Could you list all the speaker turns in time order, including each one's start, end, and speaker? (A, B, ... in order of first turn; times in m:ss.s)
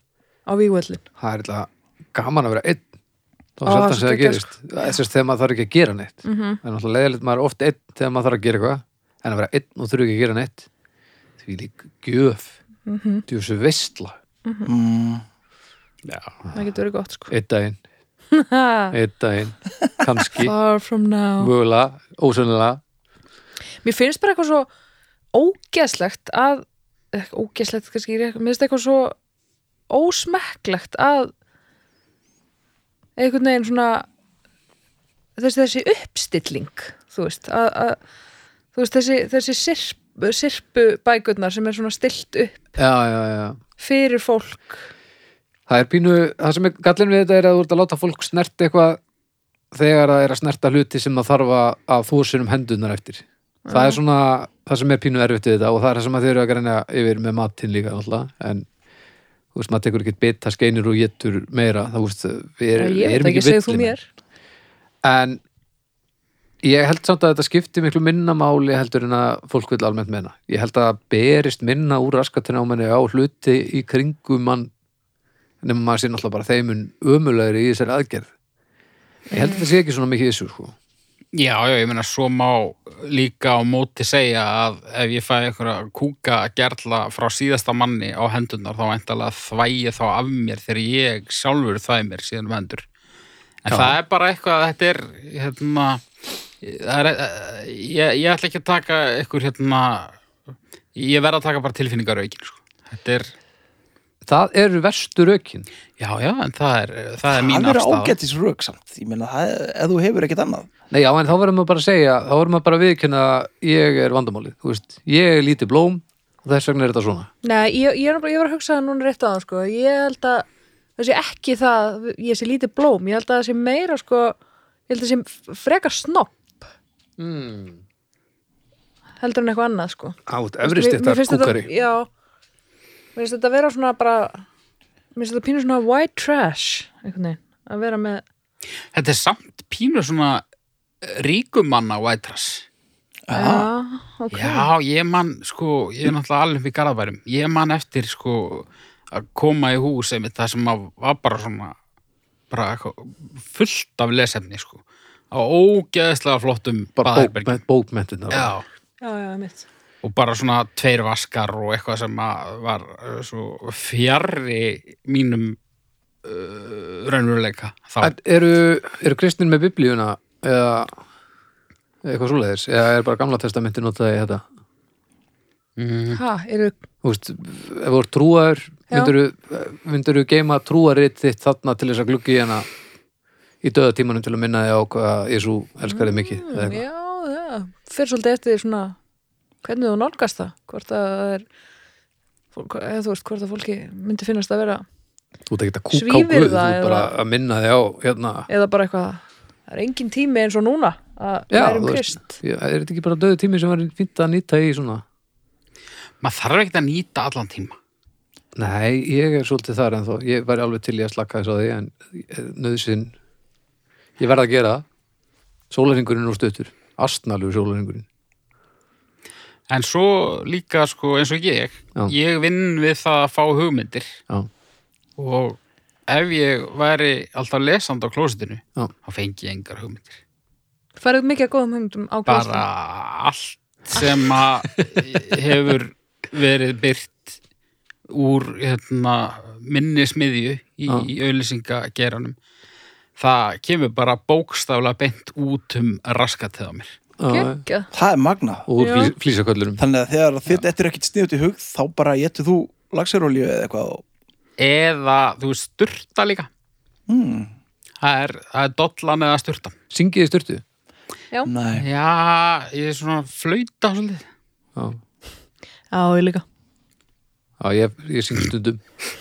0:00.4-0:01.0 A
0:01.2-0:02.8 B
0:03.6-0:10.7 B
0:03.6-0:04.5 A
0:06.2-0:06.6 A
0:11.4-0:12.5 B
0:12.9-0:13.2 A
0:13.3-0:14.1 B
0:14.4-0:14.7 A
0:14.6-0:15.2 C
0:16.0-0:16.3 D
0:16.5-0:17.3 A
0:17.3-0:17.8 B
0:18.3-0:18.9 A
0:18.9-0:20.5 B
0:20.3-0:21.5 A
0:21.4-0:22.8 B
0:23.8-0:24.7 A
0:25.3-0:29.2 A
0:29.9-0:31.3 A
0:33.2-0:34.0 A
0:35.4-0:38.0 A
0:38.7-0:42.7 A
0:42.8-0:43.6 B
0:43.8-0:44.8 A
0:45.7-0:49.0 B
0:49.7-0:58.7 B
0:53.6-0:54.0 A
0:59.5-1:03.9 B
1:02.8-1:04.0 A
1:05.0-1:05.4 B
1:06.6-1:14.7 B
1:15.6-1:18.3 B
1:19.3-1:19.6 A
1:19.3-1:20.8 B
1:21.3-1:32.8 D
1:33.6-1:36.0 D
1:33.7-1:34.0 B
1:36.6-1:40.1 D
1:41.0-1:43.3 D
1:44.2-1:45.7 B
1:46.0-1:48.2 D
1:47.3-1:50.7 C
1:50.9-1:57.3 B
1:57.4-2:00.4 A
2:01.0-2:04.4 A
2:04.9-2:06.6 A
2:07.2-2:07.8 B
2:09.2-2:12.1 A
2:10.3-2:11.7 B
2:13.1-2:14.4 A
2:15.1-2:18.2 A
2:18.9-2:20.4 D
2:21.0-2:22.6 D
2:23.3-2:23.7 C
2:23.3-2:24.7 A
2:24.3-2:31.8 D
2:32.5-2:37.6 D
2:37.0-2:38.5 B
2:38.3-2:38.6 D
2:39.0-2:39.6 A
2:40.0-2:45.6 D
2:46.2-2:48.1 D
2:48.0-2:51.0 B
2:52.0-2:54.4 B
2:55.8-2:56.2 D
2:56.1-2:56.8 A
2:57.0-3:02.7 B
3:03.6-3:06.8 B
3:05.9-3:09.0 A
3:09.6-3:11.4 A
3:12.5-3:14.8 A
3:15.5-3:18.5 B
3:15.9-3:17.1 A
3:18.5-3:22.4 A
3:21.5-3:25.0 B
3:26.2-3:27.8 D
3:28.6-3:33.1 B
3:34.2-3:34.8 B
3:35.7-3:38.0 B
3:39.7-3:44.1 D
3:45.2-3:50.2 D
3:51.0-3:52.6 A
3:52.3-3:57.4 D
3:58.1-4:02.4 D
4:03.2-4:07.0 D
4:07.2-4:07.6 B
4:07.3-4:07.9 A
4:07.9-4:08.7 C
4:08.7-4:09.8 B
4:08.8-4:09.1 A
4:09.8-4:14.0 C
4:14.6-4:16.5 D
4:17.1-4:17.5 C
4:18.0-4:19.8 D
4:19.9-4:20.6 B
4:21.5-4:21.8 C
4:21.7-4:24.2 D
4:25.9-4:26.4 A
4:27.6-4:28.8 B